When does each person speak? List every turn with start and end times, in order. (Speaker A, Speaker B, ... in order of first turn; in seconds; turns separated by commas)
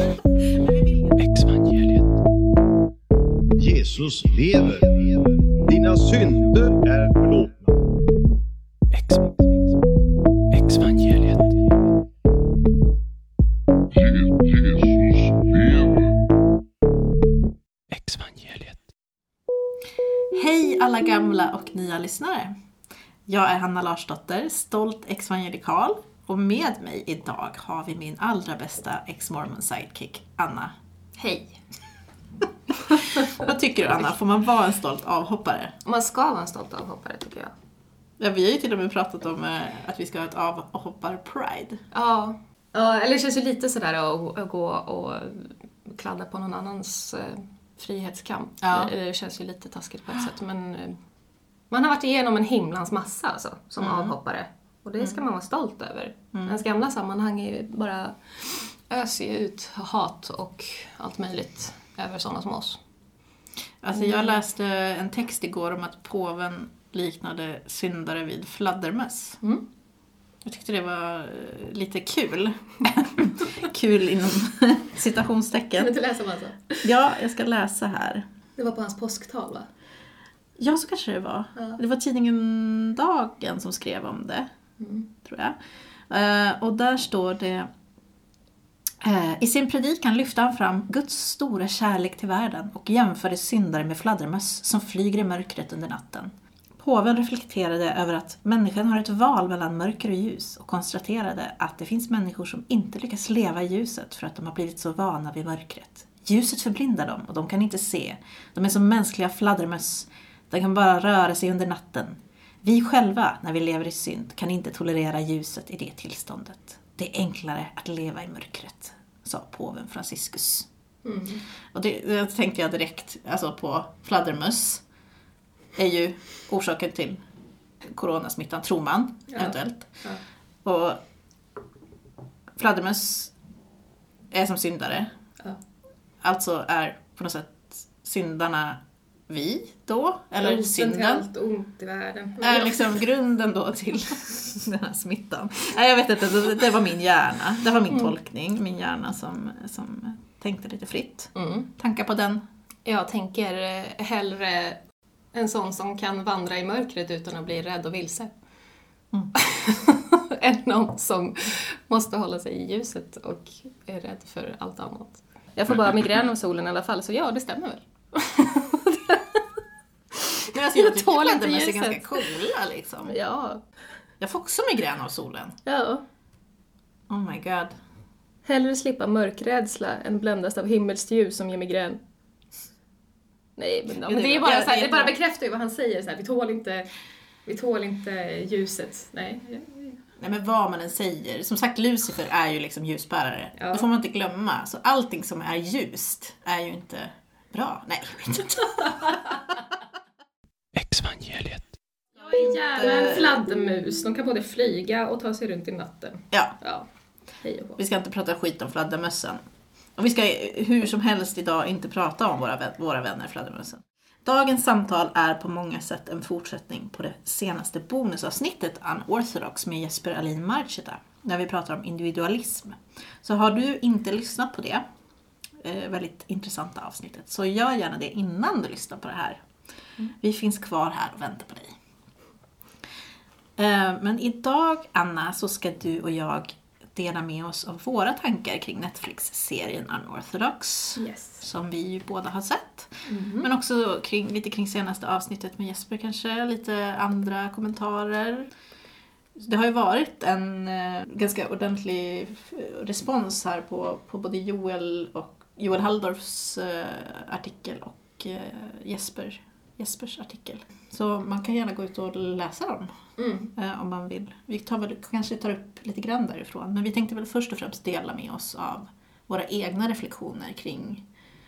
Speaker A: 0.5-1.2, Speaker B: 1.1-2.2, Speaker C: 3.6-7.5, Speaker B: 8.9-9.8, Speaker B: 10.5-11.6, Speaker C: 14.1-15.9, Speaker B: 17.9-18.8, Speaker A: 20.3-22.5, Speaker A: 23.3-30.7, Speaker D: 31.2-31.6, Speaker A: 32.8-35.8, Speaker D: 35.8-37.5, Speaker A: 38.2-41.8, Speaker D: 41.9-51.0, Speaker A: 48.6-48.9, Speaker D: 51.7-62.8, Speaker A: 53.8-54.1, Speaker A: 63.8-69.4, Speaker D: 63.9-64.4, Speaker A: 70.4-75.9, Speaker D: 75.8-76.9, Speaker A: 76.8-78.2, Speaker D: 78.6-79.7, Speaker A: 80.6-84.5, Speaker D: 81.5-81.8, Speaker D: 84.8-85.1, Speaker A: 85.2-85.6, Speaker A: 86.1-87.7, Speaker A: 89.0-120.7, Speaker D: 121.0-121.4, Speaker A: 121.7-124.8, Speaker A: 125.7-127.2, Speaker A: 127.8-130.0, Speaker D: 129.3-130.2, Speaker A: 130.6-131.0, Speaker A: 132.6-133.3, Speaker A: 134.3-135.1, Speaker A: 136.2-141.2, Speaker D: 140.4-143.0, Speaker A: 142.4-152.4, Speaker D: 151.3-151.7, Speaker D: 152.8-154.8, Speaker D: 155.3-158.3, Speaker D: 159.3-169.4, Speaker D: 170.2-172.3, Speaker A: 170.5-173.2, Speaker D: 173.1-173.6, Speaker A: 174.2-175.6, Speaker D: 175.6-176.0, Speaker A: 177.1-177.8, Speaker D: 178.4-182.0, Speaker D: 183.6-186.9, Speaker A: 184.0-185.1, Speaker D: 187.4-190.0, Speaker A: 190.2-199.2, Speaker D: 193.6-193.8, Speaker D: 198.6-199.2, Speaker B: 200.7-201.7, Speaker D: 202.2-206.9, Speaker A: 202.4-203.4, Speaker D: 207.4-207.8, Speaker A: 207.8-209.4, Speaker A: 210.0-224.8, Speaker A: 225.6-229.4, Speaker A: 230.1-231.8, Speaker A: 233.6-248.5, Speaker D: 241.0-241.4, Speaker D: 243.0-243.5, Speaker A: 249.3-262.9, Speaker D: 263.2-263.5, Speaker A: 263.6-271.1